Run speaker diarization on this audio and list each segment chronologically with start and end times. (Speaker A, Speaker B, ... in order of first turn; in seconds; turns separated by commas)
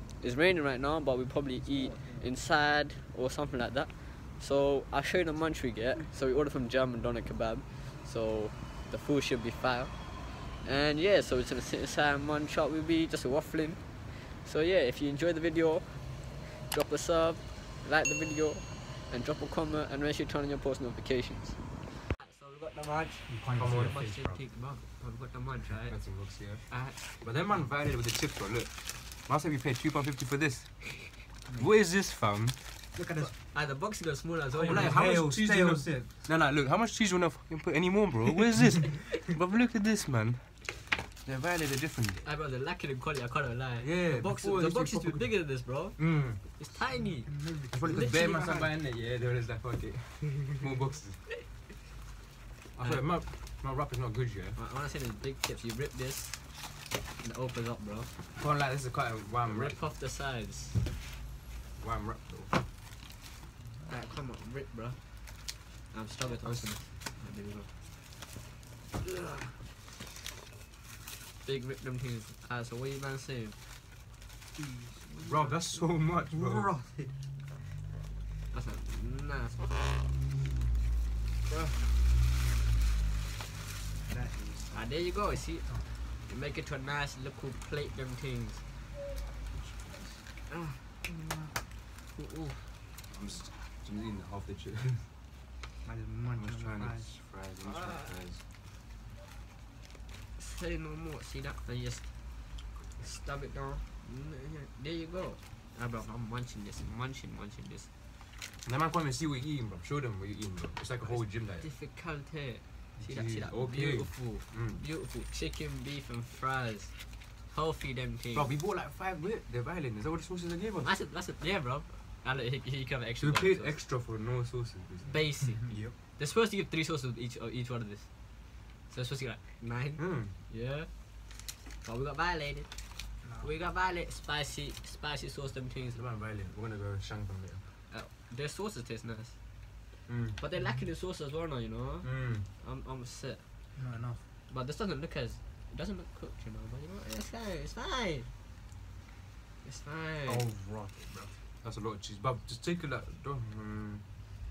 Speaker A: 0.2-26.0, Speaker B: 23.3-24.4, Speaker C: 23.6-24.0, Speaker C: 25.9-32.7, Speaker A: 26.7-27.2, Speaker B: 31.5-31.7, Speaker B: 33.0-33.4, Speaker A: 33.2-35.0, Speaker B: 34.5-36.1, Speaker C: 34.7-42.3, Speaker A: 42.2-48.3, Speaker C: 43.8-46.4, Speaker B: 46.9-48.7, Speaker C: 47.7-51.3, Speaker C: 52.8-54.6, Speaker A: 52.8-53.1, Speaker A: 54.6-58.1, Speaker C: 58.4-59.8, Speaker A: 59.5-60.9, Speaker C: 61.8-62.6, Speaker A: 63.9-67.7, Speaker C: 66.4-66.8, Speaker A: 69.1-69.4, Speaker A: 71.4-73.6, Speaker B: 74.5-75.0, Speaker A: 75.0-75.8, Speaker C: 75.2-76.7, Speaker B: 76.3-77.1, Speaker A: 78.5-80.0, Speaker B: 84.1-84.8, Speaker A: 84.7-88.6, Speaker C: 89.5-90.2, Speaker A: 90.5-92.7, Speaker C: 93.1-95.1, Speaker B: 95.8-97.1, Speaker C: 96.4-98.4, Speaker A: 97.6-98.2, Speaker A: 100.4-102.1, Speaker A: 102.9-107.9, Speaker C: 108.7-111.7, Speaker A: 111.0-118.5, Speaker C: 113.1-114.8, Speaker C: 118.3-120.9, Speaker A: 120.8-123.8, Speaker C: 123.2-125.2, Speaker A: 125.1-136.0, Speaker B: 125.6-126.0, Speaker C: 130.0-130.3, Speaker C: 135.9-137.7, Speaker A: 137.9-139.4, Speaker C: 140.1-140.4, Speaker A: 140.4-143.4, Speaker C: 142.0-142.4, Speaker B: 143.8-144.2, Speaker A: 144.5-148.3, Speaker A: 149.6-150.5, Speaker B: 150.3-151.2, Speaker C: 151.6-154.0